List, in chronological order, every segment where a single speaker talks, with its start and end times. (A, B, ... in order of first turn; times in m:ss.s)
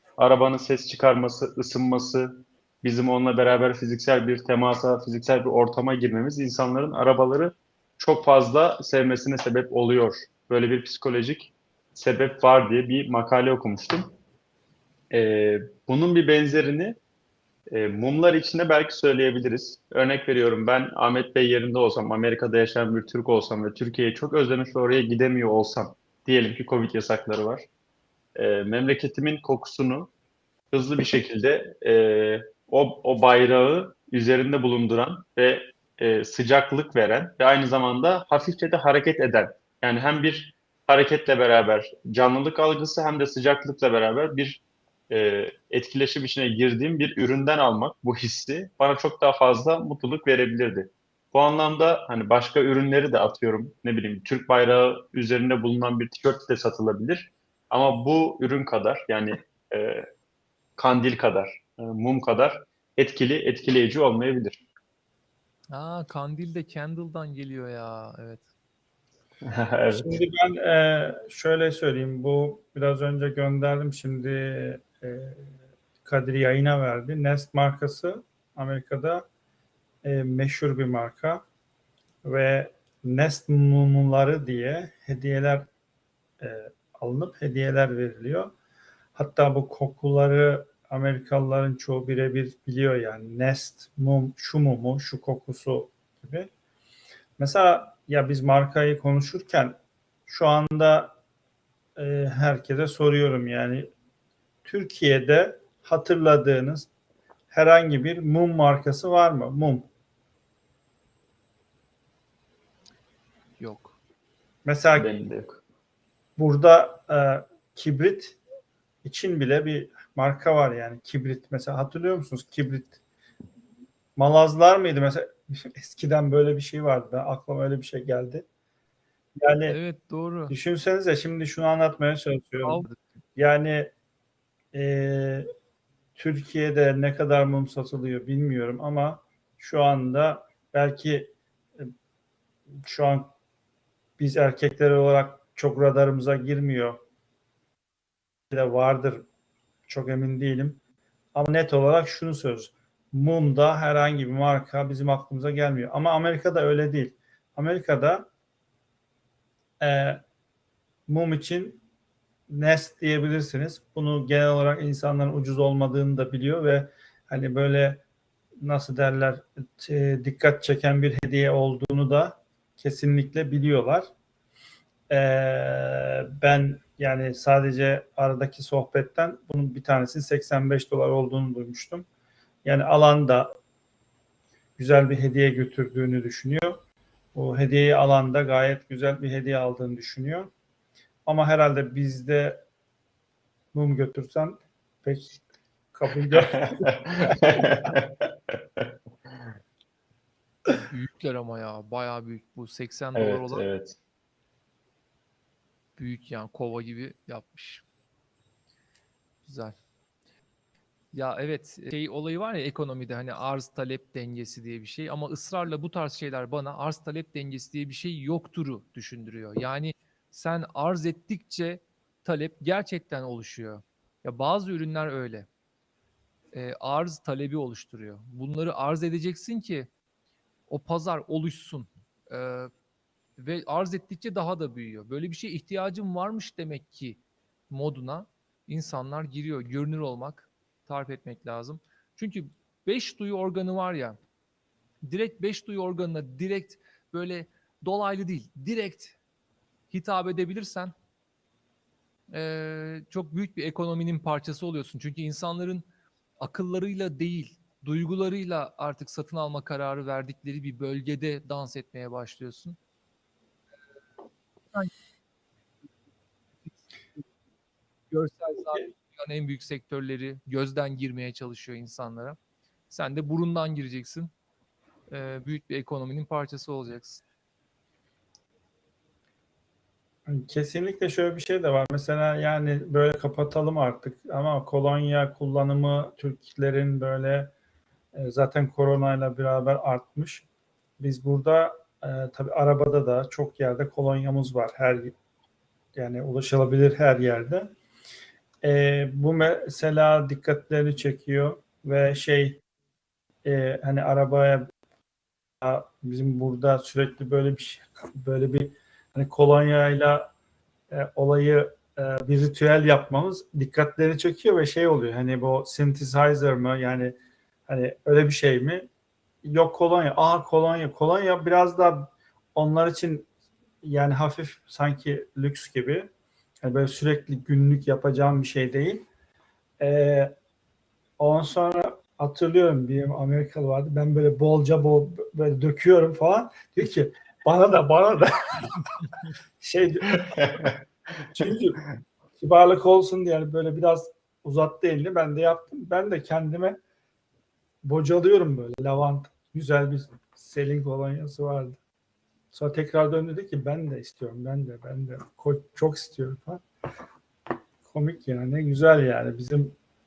0:00.2-0:14.2 A
0:15.1-0:17.0 A
0:17.7-0:27.7 A
0:28.4-0:30.1 A
0:30.7-1:00.1 A
1:00.8-1:04.6 A
1:05.7-1:08.5 B
1:09.4-1:10.1 A
1:09.9-1:15.5 C
1:16.0-1:19.3 C
1:20.0-1:21.4 C
1:22.2-1:25.7 C
1:26.4-1:28.5 C
1:29.2-1:36.5 C
1:37.4-1:39.8 C
1:40.3-1:41.2 C
1:42.0-1:43.9 C
1:44.6-1:46.9 C
1:47.5-1:49.9 C
1:53.6-1:54.0 B
1:54.6-1:55.1 C
1:54.9-1:55.6 A
1:56.4-1:58.4 C
1:59.0-2:03.0 C
2:04.2-2:08.5 C
2:09.4-2:09.8 C
2:09.7-2:10.5 B
2:10.5-2:13.9 C
2:12.6-2:13.0 B
2:14.7-2:15.5 C
2:16.2-2:21.9 C
2:22.8-2:23.3 C
2:24.2-2:27.0 C
2:28.5-2:29.2 C
2:29.9-2:30.8 C
2:31.4-2:38.3 C
2:39.8-2:40.2 C
2:41.1-2:41.8 C
2:42.5-2:48.0 C
2:48.6-2:54.1 C
2:55.1-3:02.1 C
3:02.6-3:03.5 C
3:04.8-3:06.8 C
3:07.4-3:10.5 C
3:11.3-3:12.6 C
3:13.7-3:15.4 C
3:15.9-3:17.7 C
3:16.3-3:18.9 A
3:20.7-3:23.7 B
3:23.2-3:24.0 A
3:26.0-3:27.8 B
3:29.4-3:29.8 B
3:31.1-3:45.5 B
3:46.5-3:49.9 B
3:50.7-3:52.7 B
3:53.4-4:04.2 B
4:05.0-4:09.2 B
4:09.9-4:10.9 B
4:12.3-4:15.9 B
4:16.4-4:22.8 B
4:28.1-4:32.4 B
4:32.9-4:34.3 B
4:35.1-4:37.2 B
4:40.3-4:47.5 C
4:48.1-4:50.4 C
4:51.0-4:55.1 C
4:56.0-4:57.7 C
4:58.6-5:02.6 C
5:03.4-5:04.7 C
5:05.6-5:10.3 C
5:10.9-5:17.2 C
5:17.7-5:18.9 C
5:19.4-5:23.3 C
5:23.8-5:26.1 C
5:26.6-5:29.1 C
5:29.8-5:30.3 C
5:31.2-5:38.9 C
5:39.6-5:40.6 C
5:40.3-5:40.8 A
5:41.3-5:41.9 C
5:42.4-5:46.8 C
5:47.8-5:51.8 C
5:52.5-5:56.6 C
5:57.9-5:59.8 C